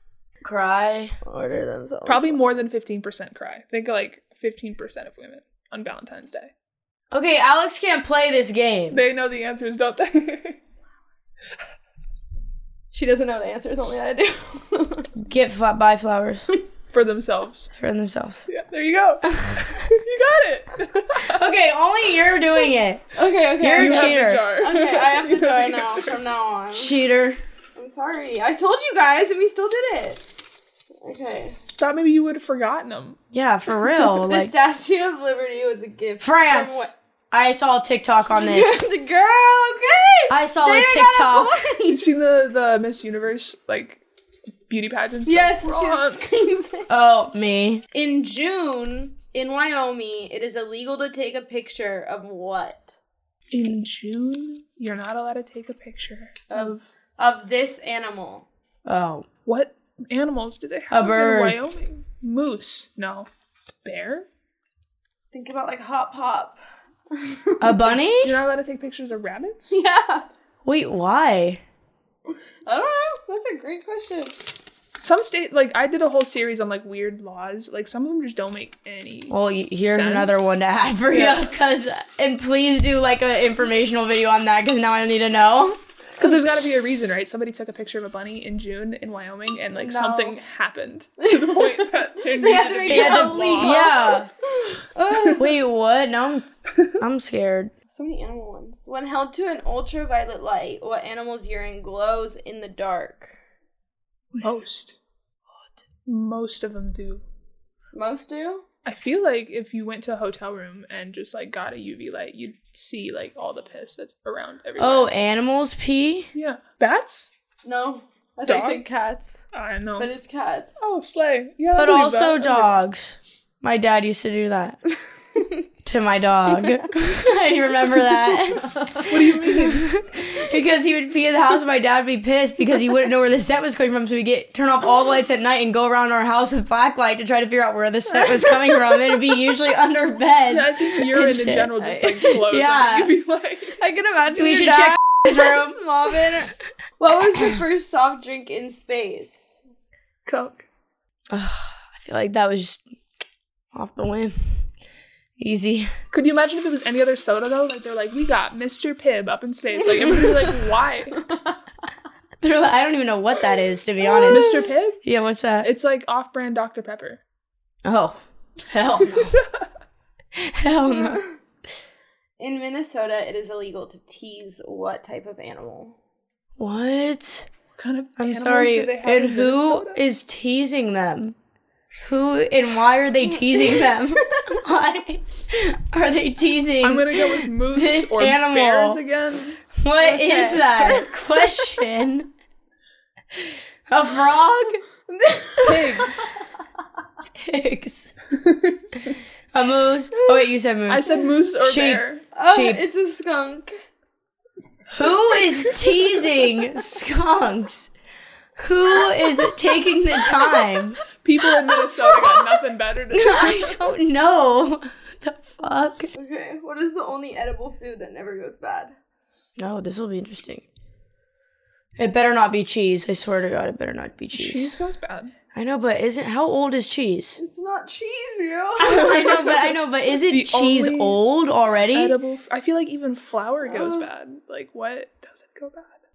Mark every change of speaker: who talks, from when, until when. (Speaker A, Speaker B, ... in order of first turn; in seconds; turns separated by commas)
Speaker A: 0.4-1.1, Speaker B: 1.2-2.8, Speaker C: 2.0-6.5, Speaker A: 7.1-9.0, Speaker C: 8.9-10.6, Speaker B: 12.9-15.1, Speaker A: 15.2-16.5, Speaker C: 16.9-17.7, Speaker A: 17.7-18.5, Speaker C: 18.5-21.4, Speaker A: 19.2-19.8, Speaker A: 21.1-24.4, Speaker B: 23.1-26.9, Speaker C: 23.8-26.2, Speaker A: 26.7-27.4, Speaker B: 27.8-30.2, Speaker B: 31.0-31.6, Speaker C: 31.8-33.2, Speaker A: 33.3-34.5, Speaker B: 34.2-36.9, Speaker A: 36.2-38.8, Speaker B: 38.3-42.1, Speaker A: 40.3-41.6, Speaker C: 41.9-44.0, Speaker C: 44.7-46.3, Speaker B: 45.2-46.9, Speaker A: 46.9-47.8, Speaker B: 47.9-53.0, Speaker C: 53.5-56.8, Speaker B: 56.5-58.5, Speaker A: 58.9-59.2, Speaker C: 59.5-63.3, Speaker A: 60.9-61.6, Speaker C: 63.8-64.2, Speaker B: 65.3-66.6, Speaker B: 67.1-67.9, Speaker A: 67.6-68.4, Speaker C: 68.2-69.8, Speaker B: 69.7-70.3, Speaker A: 70.6-71.6, Speaker B: 72.7-74.4, Speaker C: 75.0-80.5, Speaker A: 79.3-85.8, Speaker C: 81.1-81.5, Speaker C: 86.2-93.9, Speaker B: 89.8-90.4, Speaker B: 91.2-95.5, Speaker A: 92.9-94.3, Speaker A: 95.3-96.5, Speaker A: 97.0-97.7, Speaker B: 97.9-103.3, Speaker C: 104.4-105.0, Speaker C: 106.0-107.2, Speaker B: 107.9-108.6, Speaker C: 108.8-115.1, Speaker A: 114.8-116.3, Speaker C: 116.3-117.3, Speaker B: 117.6-119.4, Speaker C: 118.5-118.8, Speaker C: 119.5-120.1, Speaker B: 120.0-120.8, Speaker C: 120.8-122.8, Speaker A: 121.7-124.8, Speaker A: 125.8-143.1, Speaker B: 126.5-126.9, Speaker B: 128.3-129.4, Speaker C: 129.1-129.9, Speaker B: 138.6-139.1, Speaker C: 140.5-143.8, Speaker B: 143.8-149.6, Speaker A: 144.3-146.4, Speaker A: 147.2-147.6, Speaker C: 150.2-150.6, Speaker A: 151.3-152.8, Speaker A: 153.7-154.6, Speaker A: 155.4-155.9, Speaker C: 156.1-161.2, Speaker B: 159.8-160.6, Speaker B: 161.2-161.6, Speaker A: 162.4-164.5, Speaker B: 164.0-164.7, Speaker C: 164.3-165.0, Speaker A: 165.0-165.7, Speaker C: 165.6-167.2, Speaker A: 167.8-169.4, Speaker C: 169.1-169.4, Speaker A: 170.3-171.2, Speaker B: 170.8-171.4, Speaker B: 172.4-175.9, Speaker A: 176.6-177.5, Speaker C: 177.8-180.0, Speaker A: 178.2-181.3, Speaker A: 182.0-189.0, Speaker C: 186.8-191.1, Speaker A: 189.8-192.3, Speaker B: 190.0-191.1, Speaker A: 193.3-194.8, Speaker B: 195.1-196.2, Speaker C: 195.6-196.4, Speaker A: 197.4-198.1, Speaker C: 198.3-199.1, Speaker A: 199.5-202.8, Speaker B: 200.1-200.4, Speaker C: 200.9-202.2, Speaker B: 202.3-203.7, Speaker A: 204.9-207.9, Speaker A: 208.6-211.0, Speaker C: 211.1-213.8, Speaker A: 211.7-212.6, Speaker A: 213.1-216.1, Speaker B: 216.2-218.9, Speaker A: 219.6-220.7, Speaker A: 222.0-224.7, Speaker C: 224.3-225.3, Speaker A: 225.5-227.4, Speaker B: 227.4-229.5, Speaker A: 228.8-232.2, Speaker C: 228.9-229.7, Speaker C: 230.3-231.2, Speaker C: 231.9-235.9, Speaker B: 233.6-234.1